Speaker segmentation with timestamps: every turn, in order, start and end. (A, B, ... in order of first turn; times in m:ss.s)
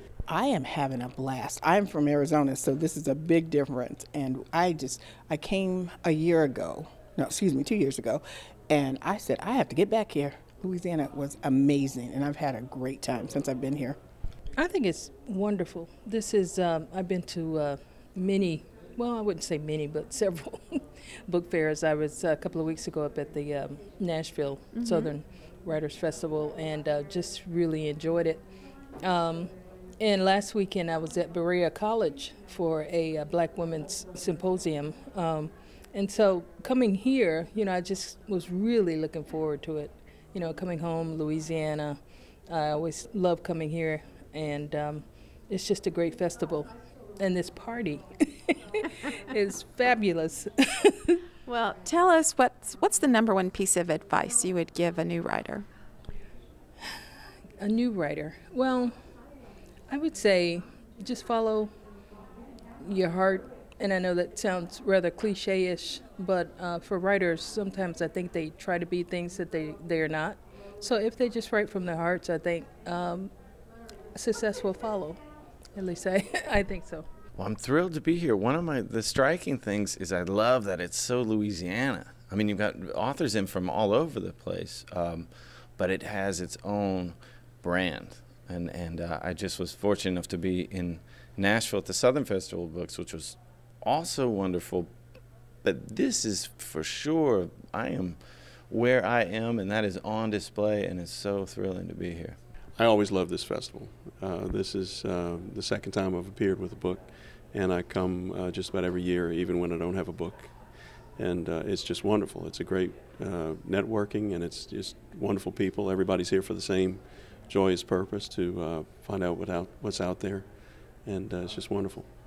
0:00.3-0:14.0 A
0:14.6-0:28.5 B
0:24.7-0:25.1 C
0:29.0-0:48.5 B
0:49.3-0:50.5 B
0:51.5-0:55.7 C
0:57.6-0:59.2 B
0:59.9-1:01.7 B
1:02.8-1:13.3 B
1:14.1-1:15.2 B
1:15.7-1:17.0 B
1:17.4-1:34.9 D
1:35.6-1:42.4 D
1:42.8-2:02.1 E